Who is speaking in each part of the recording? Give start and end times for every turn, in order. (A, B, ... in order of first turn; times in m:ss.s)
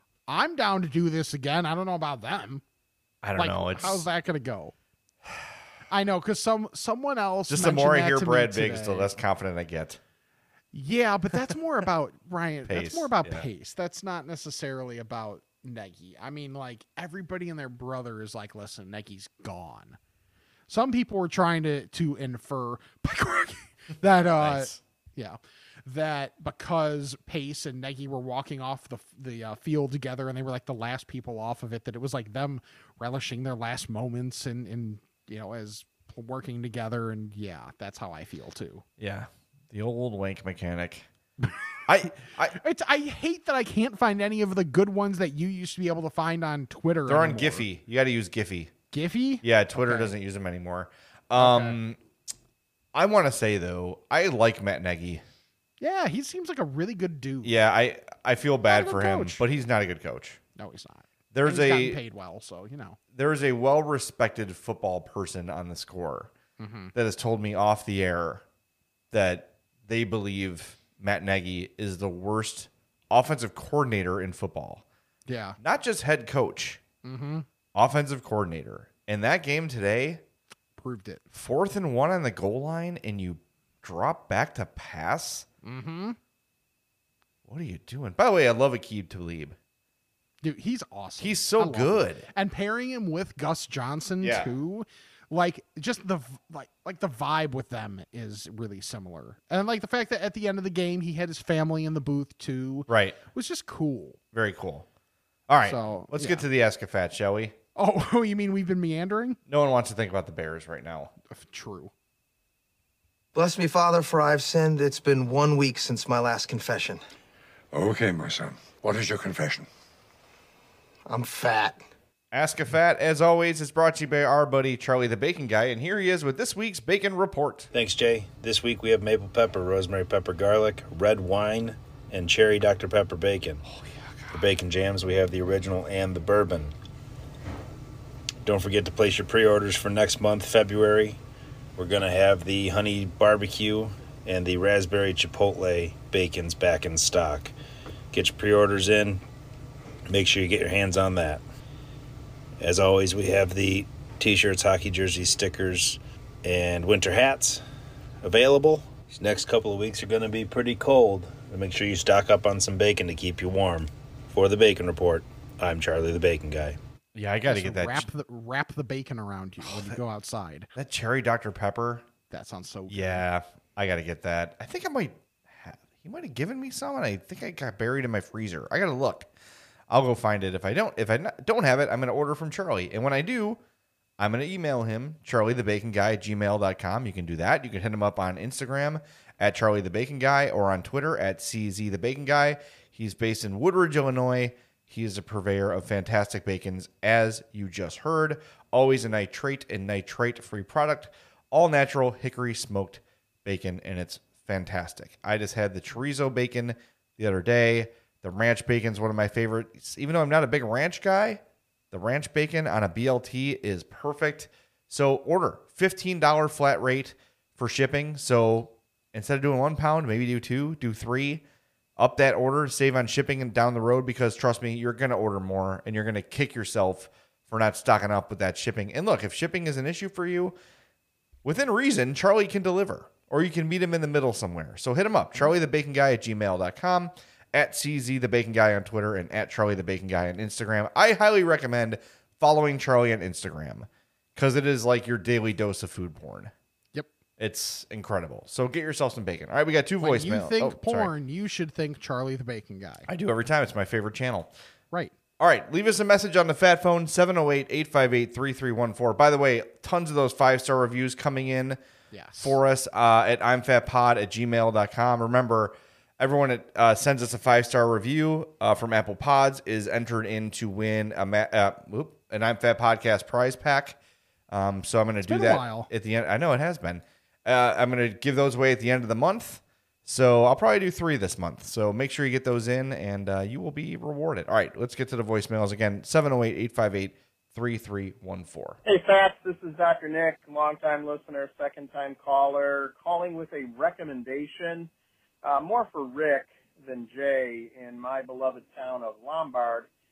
0:00.3-0:02.6 A
0:03.2-0:04.1 B
0:03.4-0:04.8 A
0:05.9-0:09.1 A
0:07.5-0:10.0 B
0:10.7-0:20.0 A
0:12.7-0:13.5 B
0:20.7-0:38.8 A
0:24.3-0:24.8 B
0:39.0-0:41.1 B
0:41.9-0:42.6 B
0:42.5-0:47.7 A
0:47.1-0:48.7 B
0:48.9-0:50.1 A
0:49.4-0:52.0 B
0:51.4-0:51.8 A
0:52.9-0:55.2 B
0:55.8-0:57.6 A
0:57.4-1:00.4 B
0:58.7-0:59.4 A
1:00.6-1:03.0 A
1:01.3-1:02.0 B
1:03.1-1:06.3 B
1:06.6-1:06.9 A
1:06.9-1:08.4 B
1:09.1-1:14.8 B
1:15.3-1:15.6 A
1:15.6-1:16.8 B
1:17.0-1:17.5 A
1:17.8-1:20.2 B
1:20.8-1:21.2 A
1:21.3-1:25.5 B
1:25.6-1:26.2 A
1:27.5-1:29.6 B
1:30.4-1:44.2 A
1:31.2-1:32.3 B
1:34.2-1:34.5 B
1:42.9-1:43.2 B
1:44.3-1:44.9 B
1:45.5-1:47.6 B
1:45.6-1:46.4 A
1:47.8-1:49.4 A
1:49.5-1:51.1 B
1:51.3-1:51.9 A
1:53.3-1:57.0 C
1:57.7-1:59.7 D
2:01.1-2:01.9 C
2:02.3-2:07.7 B
2:07.7-2:13.6 E
2:13.6-2:14.4 B
2:14.3-2:16.7 E
2:18.4-2:21.2 E
2:21.8-2:27.5 E
2:28.1-2:29.2 E
2:30.1-2:31.4 E
2:32.6-2:37.6 E
2:38.2-2:46.8 E
2:47.2-2:48.1 B
2:47.5-2:50.7 A
2:49.6-2:50.0 B
2:50.8-2:52.1 B
2:52.3-2:53.2 A
2:52.9-2:59.3 B
2:59.9-3:03.6 B
3:04.2-3:41.4 B
3:42.0-3:50.6 B
3:51.4-4:06.5 B
4:07.4-4:11.1 B
4:10.0-4:13.1 A
4:13.1-4:14.5 B
4:15.4-4:21.8 B
4:22.1-4:22.6 A
4:22.4-4:34.0 B
4:34.5-4:48.8 B
4:35.2-4:35.9 A
4:48.8-4:54.9 F
4:55.4-4:59.9 F